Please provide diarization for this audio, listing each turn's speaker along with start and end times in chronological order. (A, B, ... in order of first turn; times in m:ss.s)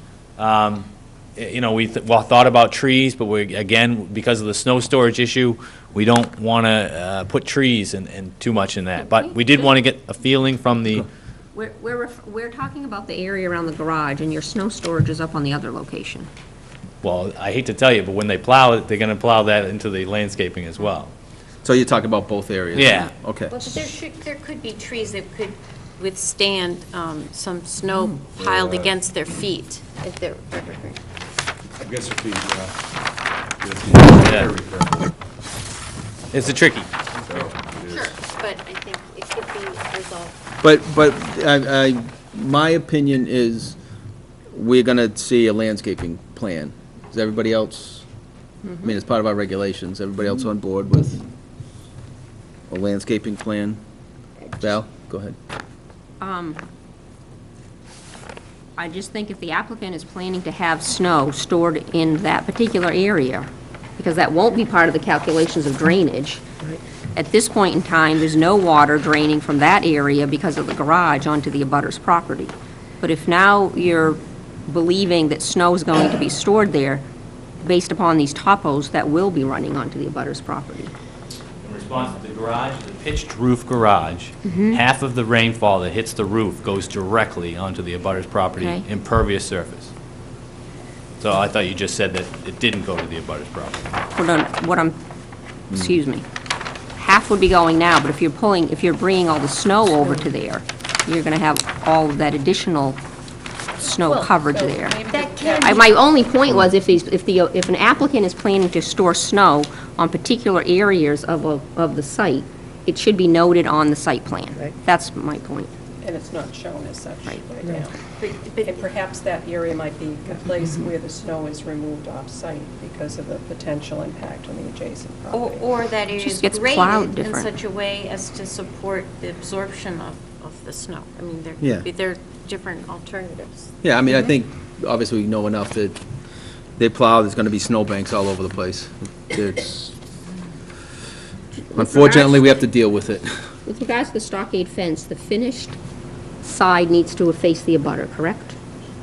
0:00.4-0:11.0 A
0:09.0-0:09.7 B
0:11.5-0:16.3 B
0:17.0-0:21.1 A
0:21.6-0:23.9 C
0:22.7-0:23.1 A
0:23.5-0:31.0 D
0:28.3-0:29.0 E
0:31.8-0:32.7 E
0:33.6-0:35.1 E
0:34.2-0:34.5 A
0:36.3-0:36.9 A
0:37.1-0:38.1 E
0:37.9-0:40.4 D
0:40.6-0:43.8 C
0:44.5-0:48.0 C
0:48.8-0:51.2 C
0:52.7-0:53.8 C
0:54.6-0:55.4 C
0:56.2-0:56.6 B
0:58.8-1:17.0 B
1:17.6-1:20.9 B
1:21.6-1:29.9 A
1:24.4-1:24.8 B
1:28.6-1:28.8 B
1:31.2-1:33.9 A
1:34.1-1:35.0 B
1:35.7-1:36.2 B
1:37.0-1:43.0 B
1:43.8-1:45.0 B
1:43.8-1:46.0 F
1:45.1-1:45.9 D
1:45.6-1:55.7 B
1:56.0-2:05.7 F
1:58.2-1:58.8 D
2:05.3-2:13.7 D
2:06.1-2:07.5 B
2:11.6-2:11.9 C
2:13.8-2:16.0 C
2:16.8-2:19.9 C
2:21.7-2:22.4 B
2:21.7-2:23.4 C
2:23.6-2:25.8 B
2:26.4-2:28.6 B